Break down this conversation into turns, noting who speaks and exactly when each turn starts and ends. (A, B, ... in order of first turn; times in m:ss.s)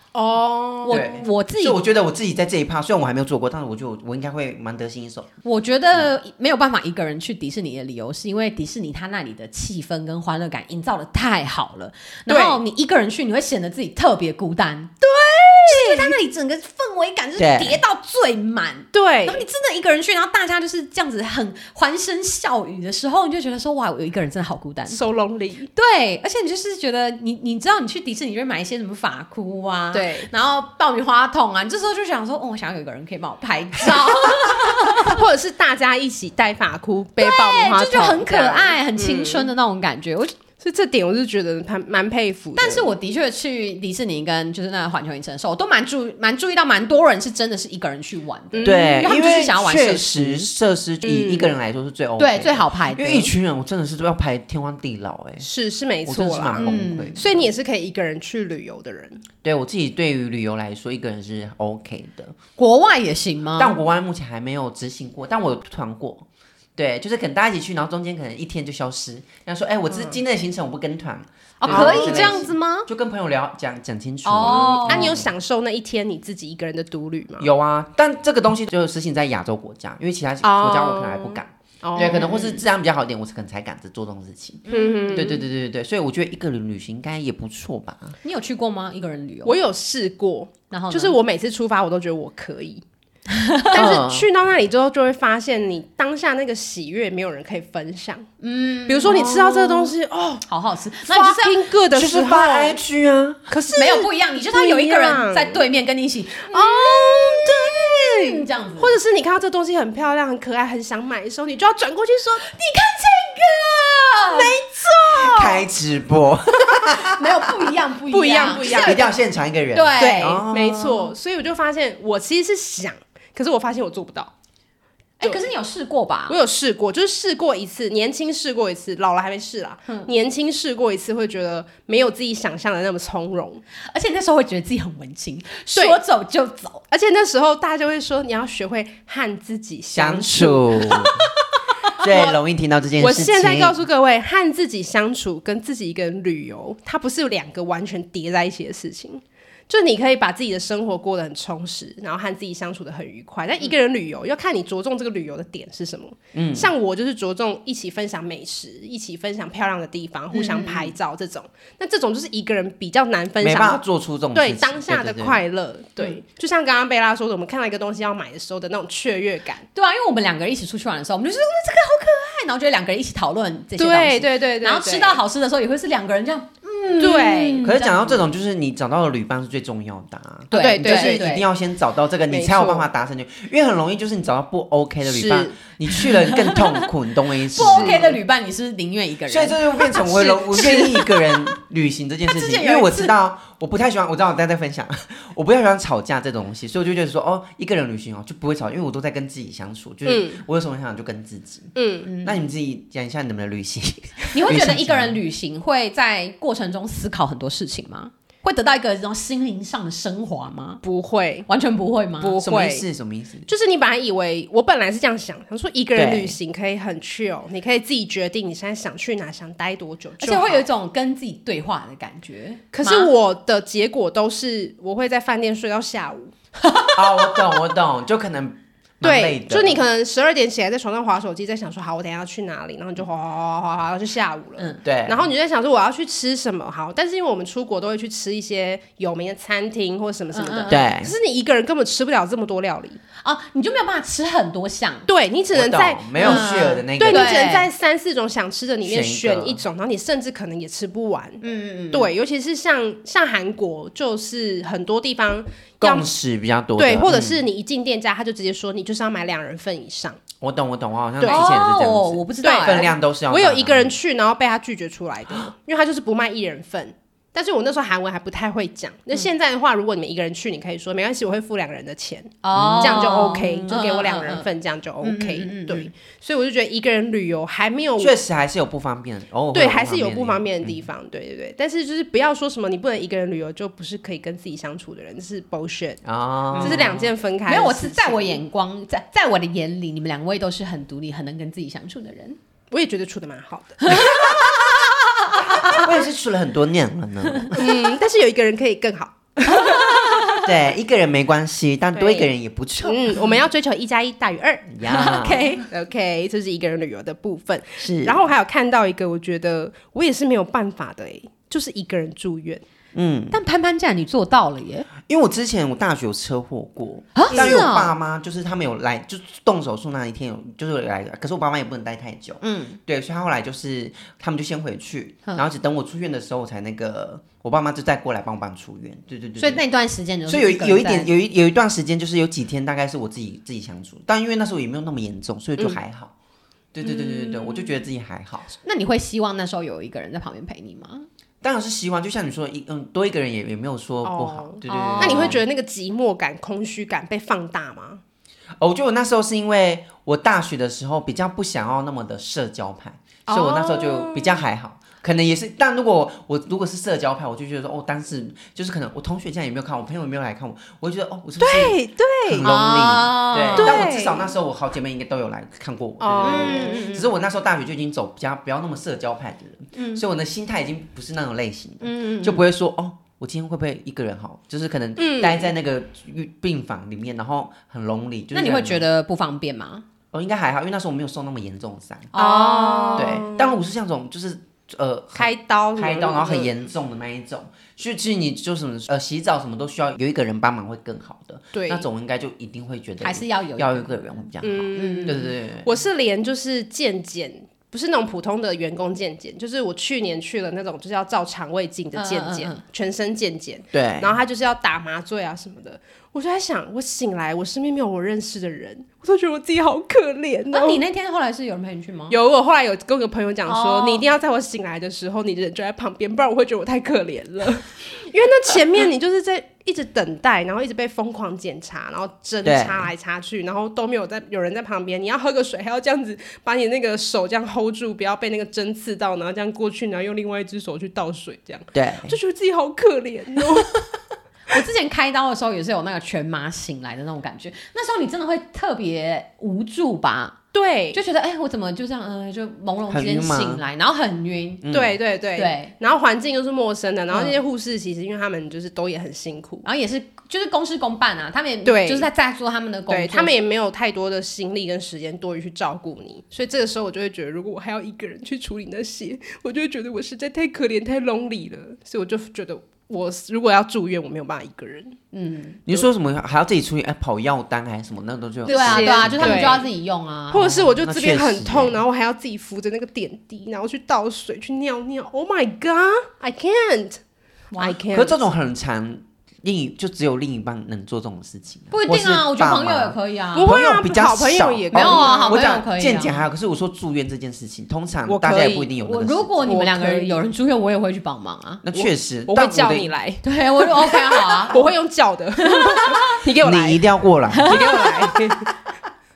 0:00.1-0:01.1 A
0:00.8-0:01.8 B
0:00.9-0:05.3 C
0:05.4-0:14.9 B
0:12.3-0:12.6 A
0:15.0-0:16.2 A
0:15.6-0:25.0 B
0:17.4-0:17.8 C
0:18.9-0:19.4 A
0:24.9-0:25.7 A
0:25.7-0:35.2 B
0:29.9-0:30.3 A
0:33.8-0:39.5 A
0:37.2-0:40.4 B
0:40.6-0:42.9 A
0:42.6-0:50.5 B
0:48.5-0:49.0 A
0:48.6-0:55.4 C
0:51.0-0:51.5 A
0:52.2-0:53.3 B
0:55.4-0:59.2 A
0:56.0-0:57.5 C
0:56.6-0:57.2 B
0:59.4-1:02.4 C
1:02.6-1:03.8 B
1:03.6-1:06.2 C
1:06.8-1:15.3 C
1:11.6-1:12.9 B
1:11.6-1:12.3 A
1:14.2-1:15.1 B
1:14.4-1:17.5 A
1:17.4-1:28.2 C
1:20.4-1:22.6 A
1:22.0-1:22.4 B
1:24.7-1:25.2 B
1:24.7-1:25.4 A
1:28.2-1:29.6 B
1:29.4-1:32.8 A
1:30.7-1:31.2 B
1:33.3-1:33.9 B
1:33.7-1:38.3 A
1:33.7-1:34.3 C
1:38.4-1:39.8 B
1:38.8-1:40.4 A
1:39.1-1:39.6 C
1:40.5-1:41.6 B
1:41.1-1:42.8 A
1:41.9-1:43.5 C
1:43.5-1:45.6 A
1:43.8-1:49.0 B
1:46.4-1:52.4 A
1:52.4-1:55.5 B
1:54.3-1:55.6 A
1:55.2-1:57.7 C
1:56.8-1:59.1 B
1:58.1-1:59.1 A
1:58.6-2:00.9 C
1:59.7-2:01.1 B
2:00.0-2:04.3 A
2:05.2-2:06.4 B
2:05.2-2:05.5 A
2:06.3-2:13.6 A
2:13.9-2:16.8 B
2:15.7-2:16.0 A
2:16.9-2:21.1 A
2:19.9-2:21.3 C
2:22.0-2:23.8 C
2:22.0-2:22.3 A
2:23.0-2:43.8 A
2:36.3-2:36.7 C
2:40.3-2:40.9 B
2:43.4-2:45.4 C
2:44.3-2:49.6 A
2:49.7-2:58.2 B
2:53.8-2:55.2 A
2:56.9-2:57.6 A
2:57.6-3:08.2 C
3:00.5-3:01.3 A
3:00.5-3:01.4 B
3:02.3-3:02.9 A
3:05.0-3:05.6 A
3:06.0-3:06.8 B
3:07.5-3:11.4 B
3:07.6-3:08.2 A
3:09.3-3:25.2 C
3:12.3-3:13.1 B
3:20.0-3:20.4 A
3:21.7-3:22.1 A
3:22.0-3:22.4 B
3:24.3-3:30.8 B
3:30.8-3:31.5 A
3:31.5-3:32.4 B
3:32.2-3:32.8 A
3:32.4-3:33.5 C
3:33.5-3:40.6 A
3:35.9-3:36.4 C
3:40.2-3:43.1 B
3:42.7-3:46.3 A
3:46.6-3:47.6 B
3:47.0-3:49.8 C
3:49.0-4:03.0 A
3:54.6-3:54.8 B
3:54.8-3:55.2 C
4:00.3-4:00.9 B
4:00.7-4:01.1 C
4:03.2-4:05.1 B
4:05.1-4:16.1 A
4:05.5-4:07.4 C
4:06.2-4:07.7 B
4:08.8-4:09.6 C
4:11.4-4:12.1 B
4:15.8-4:17.4 C
4:16.8-4:20.2 A
4:20.4-4:23.9 C
4:21.2-4:21.5 A
4:21.2-4:22.9 B
4:22.4-4:38.1 A
4:32.4-4:34.5 B
4:32.5-4:33.0 C
4:35.0-4:35.9 B
4:38.0-4:40.8 C
4:39.5-4:46.0 A
4:46.0-4:47.0 C
4:46.6-4:48.4 A
4:46.6-4:52.4 B
4:52.7-4:54.4 A
4:53.8-4:55.9 B
4:55.6-4:57.7 C
4:57.5-5:00.1 A
4:59.5-5:00.5 B
5:00.4-5:03.2 C
5:02.0-5:02.3 A
5:02.8-5:04.7 A
5:04.7-5:05.6 C
5:04.8-5:05.6 B
5:05.7-5:12.6 A
5:07.8-5:08.2 C
5:12.9-5:13.4 C
5:13.3-5:14.9 B
5:15.0-5:29.6 C
5:17.2-5:17.9 B
5:17.3-5:17.6 A
5:22.4-5:22.8 B
5:29.4-5:31.1 B
5:30.3-5:36.1 C
5:36.7-5:38.5 C
5:36.8-5:37.7 B
5:38.6-5:41.0 B
5:41.4-5:45.4 C
5:44.0-5:48.0 A
5:44.7-5:45.4 B
5:48.6-6:18.8 C
5:53.3-5:54.4 A
6:01.4-6:02.4 A
6:02.4-6:03.8 B
6:03.5-6:04.3 A
6:06.0-6:06.9 A
6:06.2-6:07.1 B
6:09.8-6:10.0 B
6:11.8-6:12.4 B
6:15.0-6:15.5 A
6:18.3-6:19.8 B
6:20.1-6:22.1 C
6:22.1-6:23.2 B
6:22.1-6:23.6 A
6:23.0-6:35.8 C
6:25.1-6:26.5 A
6:31.5-6:31.8 A
6:33.0-6:33.9 B
6:34.4-6:50.8 A
6:34.8-6:35.3 B
6:41.9-6:42.6 B
6:43.7-6:44.2 C
6:50.5-6:52.2 B
6:52.1-7:13.8 A
6:53.5-6:54.0 B
7:02.4-7:02.9 C
7:11.7-7:12.1 C
7:14.5-7:20.4 B
7:20.5-7:21.0 A
7:20.9-7:24.7 B
7:22.9-7:23.6 C
7:24.6-7:25.0 C
7:24.7-7:29.6 A
7:25.3-7:25.7 B
7:27.1-7:27.4 B
7:29.6-7:33.4 B
7:31.6-7:32.1 A
7:32.9-7:45.0 A
7:45.1-7:45.6 B
7:45.6-7:49.6 C
7:48.4-7:49.7 A
7:48.5-7:50.5 B
7:50.3-7:57.0 A
7:50.3-7:51.8 C
7:57.5-7:57.8 B
7:57.6-7:58.2 A
7:57.9-8:09.3 C
8:01.7-8:03.6 B
8:03.3-8:05.4 A
8:04.7-8:06.2 B
8:08.1-8:08.7 A
8:08.8-8:11.6 B
8:09.4-8:10.2 A
8:11.6-8:12.9 C
8:11.7-8:16.8 A
8:13.2-8:14.7 B
8:15.5-8:16.2 B
8:16.4-8:17.9 C
8:17.3-8:17.9 B
8:17.4-8:18.5 A